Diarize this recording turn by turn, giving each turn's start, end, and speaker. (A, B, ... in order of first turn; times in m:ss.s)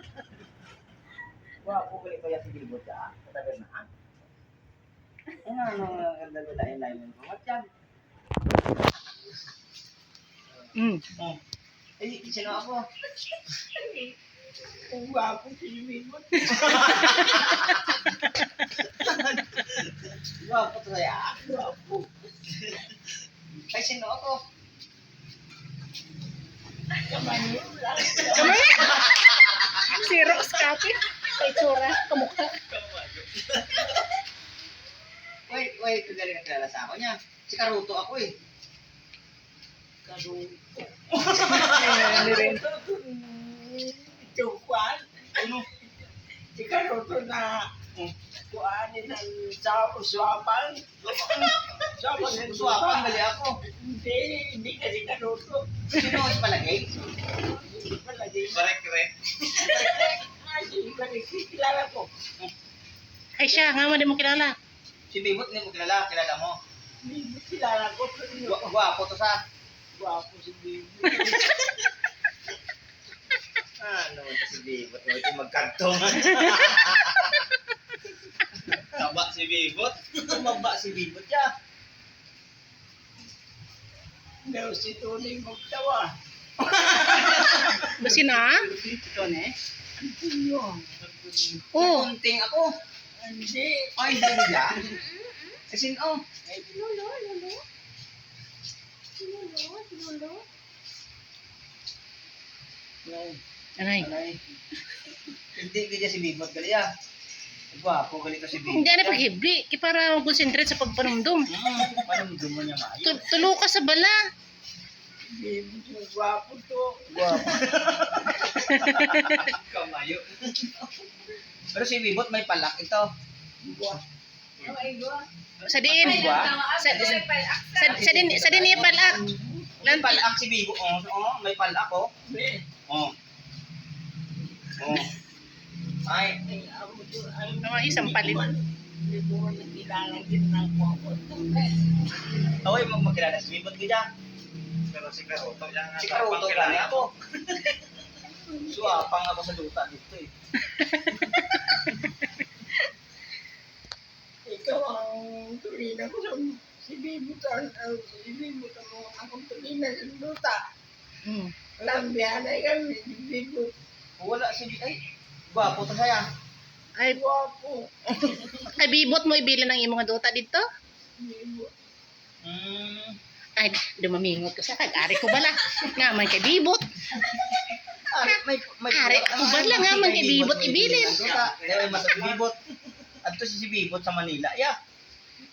0:01.6-0:03.8 A
0:05.4-0:07.6 A
0:10.7-0:11.0 B
0:12.0-0:12.8 A
0:13.8-0:14.1 C
0:14.9-0:17.4 D
0:19.0-0:21.4 A
0:21.4-0:22.1 D
0:23.7-0:24.4 A
0:26.9-0:29.4 D
0:28.4-0:29.1 B
0:28.4-0:29.6 A
0:29.6-0:32.6 B
0:32.7-0:33.9 E
0:35.5-0:38.3 A
0:40.0-0:45.5 D
0:41.1-0:42.3 A
0:41.6-0:42.6 B
0:45.3-0:45.6 A
0:46.5-0:47.7 D
0:48.5-0:56.1 D
0:51.0-0:51.6 A
0:52.2-0:53.6 A
0:55.9-0:56.9 A
0:57.4-0:58.7 D
0:58.6-0:58.9 A
0:58.7-0:59.7 E
0:59.6-1:00.2 A
0:59.6-1:02.1 D
1:03.4-1:04.5 B
1:05.1-1:06.6 A
1:07.0-1:08.7 D
1:08.4-1:09.4 A
1:09.9-1:11.6 D
1:13.8-1:17.3 A
1:18.7-1:21.5 A
1:24.4-1:26.1 D
1:26.6-1:28.1 A
1:27.9-1:28.7 B
1:28.7-1:29.0 E
1:28.7-1:29.5 A
1:30.0-1:31.0 D
1:31.1-1:31.5 E
1:31.7-1:32.7 A
1:31.7-1:32.1 B
1:33.2-1:33.9 D
1:34.0-1:34.9 A
1:35.7-1:36.2 A
1:36.5-1:37.0 D
1:36.7-1:37.6 C
1:39.2-1:40.4 C
1:43.0-1:43.4 D
1:43.8-1:44.1 B
1:44.0-1:44.4 A
1:45.5-1:46.9 A
1:47.7-1:49.2 A
1:48.6-1:51.5 B
1:51.5-1:53.3 A
1:53.0-1:54.2 B
1:55.2-1:57.5 D
1:57.1-1:58.4 A
1:57.8-1:58.1 E
1:58.6-1:59.4 B
1:59.1-2:00.1 A
1:59.3-2:00.8 E
2:01.7-2:03.1 A
2:03.6-2:04.0 D
2:04.6-2:05.3 C
2:05.6-2:09.2 B
2:05.6-2:07.2 A
2:05.9-2:08.2 C
2:07.9-2:08.9 A
2:08.4-2:09.7 D
2:09.8-2:12.1 A
2:09.8-2:10.2 B
2:12.2-2:12.6 D
2:12.9-2:13.1 A
2:14.8-2:15.1 A
2:16.0-2:16.4 A
2:16.4-2:21.9 D
2:17.6-2:18.4 B
2:22.6-2:24.1 A
2:24.9-2:27.1 E
2:26.0-2:27.1 A
2:28.2-2:29.0 D
2:28.7-2:30.3 A
2:30.6-2:31.5 B
2:34.4-2:40.6 D
2:41.2-2:41.5 B
2:41.8-2:43.7 D
2:44.2-2:46.2 A
2:47.0-2:48.3 D
2:48.6-2:50.6 B
2:51.2-2:51.7 D
2:52.4-2:53.2 A
2:53.6-2:56.8 B
2:58.1-3:02.6 A
2:58.9-3:01.2 B
3:01.2-3:01.9 E
3:02.0-3:02.3 D
3:03.2-3:04.7 A